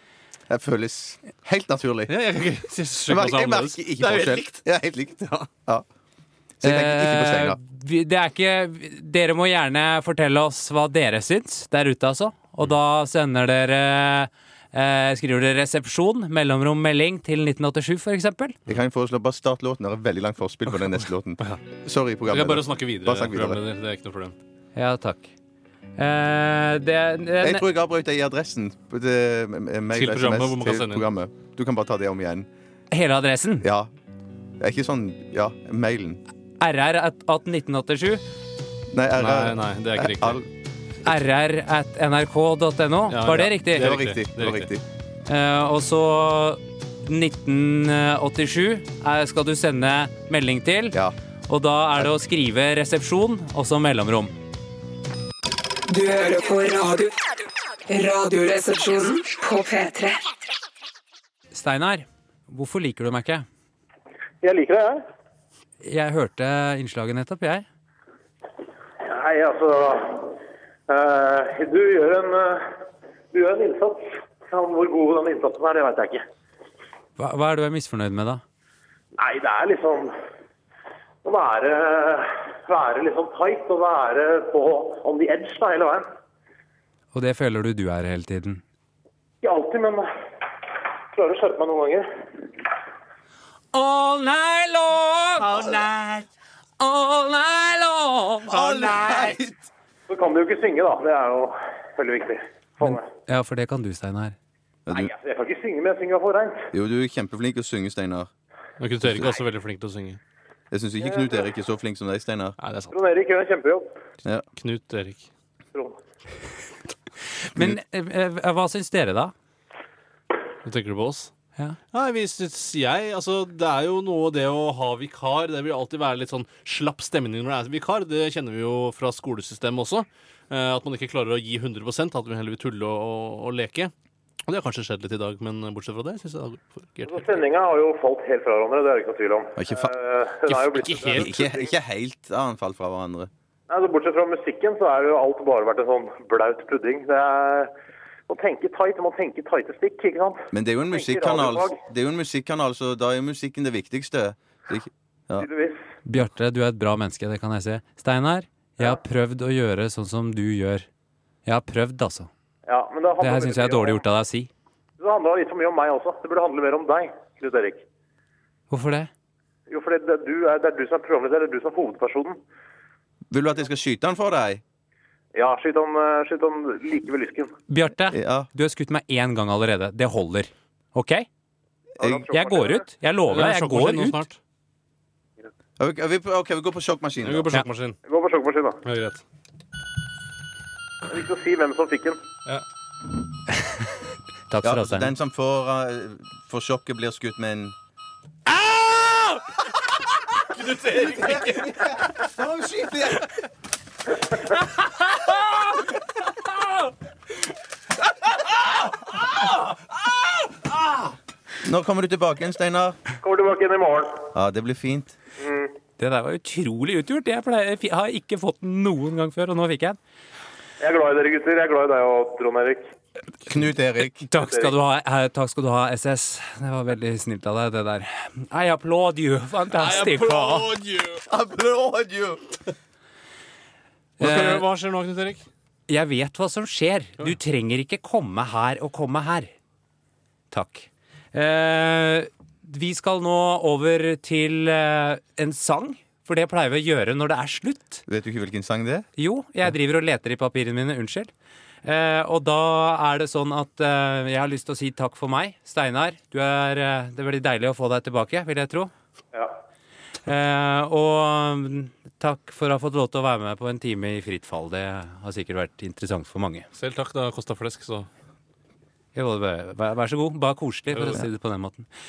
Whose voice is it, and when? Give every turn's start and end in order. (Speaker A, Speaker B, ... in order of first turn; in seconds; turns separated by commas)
Speaker A: 0.5-2.1, Speaker B: 2.1-4.6, Speaker A: 3.1-5.8, Speaker A: 6.6-7.6, Speaker C: 6.6-18.6, Speaker A: 18.7-23.6, Speaker B: 21.4-21.7, Speaker B: 22.3-24.4, Speaker C: 24.8-25.3, Speaker C: 26.0-27.7, Speaker A: 27.4-32.5, Speaker B: 29.9-31.1, Speaker C: 32.9-33.7, Speaker A: 33.6-33.9, Speaker A: 34.6-36.2, Speaker C: 36.6-38.2, Speaker A: 38.9-40.5, Speaker B: 39.2-40.4, Speaker C: 41.0-43.8, Speaker B: 43.1-44.7, Speaker A: 43.3-44.8, Speaker C: 45.3-54.3, Speaker D: 55.9-57.2, Speaker D: 57.9-60.2, Speaker C: 61.5-63.5, Speaker E: 64.4-65.0, Speaker C: 65.8-67.7, Speaker E: 69.0-72.6, Speaker E: 73.3-76.2, Speaker C: 77.2-78.4, Speaker E: 79.2-80.1, Speaker E: 81.2-86.1, Speaker C: 87.1-88.6, Speaker E: 89.4-90.0, Speaker E: 91.1-92.1, Speaker C: 93.7-95.8, Speaker A: 95.4-96.2, Speaker C: 96.8-98.9, Speaker A: 98.5-99.7, Speaker E: 100.1-103.0, Speaker C: 102.8-104.4, Speaker A: 104.9-105.1, Speaker E: 104.9-106.7, Speaker A: 106.7-108.3, Speaker B: 108.8-110.2, Speaker A: 110.7-112.6, Speaker E: 111.0-111.3, Speaker B: 112.6-113.0, Speaker E: 112.9-113.9, Speaker B: 114.6-115.3, Speaker C: 117.5-119.3, Speaker B: 120.7-121.3, Speaker B: 121.9-133.9, Speaker B: 134.4-137.3, Speaker E: 137.1-141.7, Speaker A: 139.6-139.9, Speaker B: 140.5-141.4, Speaker A: 141.0-143.3, Speaker E: 143.7-147.7, Speaker E: 148.3-151.8, Speaker A: 150.5-155.5, Speaker E: 155.4-155.8, Speaker C: 156.1-160.9, Speaker C: 161.5-162.3, Speaker E: 162.7-164.0, Speaker C: 163.2-164.5, Speaker E: 165.0-167.8, Speaker C: 168.7-169.1, Speaker E: 169.7-172.4, Speaker A: 173.3-174.6, Speaker E: 175.3-177.5, Speaker C: 177.7-181.3, Speaker A: 178.1-178.5, Speaker A: 182.0-182.2, Speaker E: 182.0-182.8, Speaker C: 182.3-184.2, Speaker B: 183.3-184.4, Speaker A: 185.8-187.5, Speaker B: 187.2-188.0, Speaker E: 188.1-188.8, Speaker B: 188.8-189.2, Speaker E: 191.1-192.2, Speaker C: 194.5-195.1, Speaker A: 194.6-197.8, Speaker B: 200.5-201.7, Speaker A: 200.9-203.3, Speaker A: 211.6-213.0, Speaker E: 213.2-214.3, Speaker A: 214.3-215.2, Speaker E: 215.4-215.7, Speaker C: 216.0-220.0, Speaker E: 220.8-222.8, Speaker A: 223.4-224.3, Speaker C: 224.2-230.7, Speaker E: 224.4-224.7, Speaker B: 229.7-231.2, Speaker A: 231.2-232.6, Speaker C: 234.2-234.7, Speaker B: 234.2-235.4, Speaker C: 235.9-239.5, Speaker C: 240.5-248.0, Speaker A: 248.1-249.1, Speaker C: 249.2-251.3, Speaker C: 251.8-258.9, Speaker C: 260.3-266.7, Speaker B: 266.7-268.1, Speaker C: 269.1-271.9, Speaker B: 270.9-271.2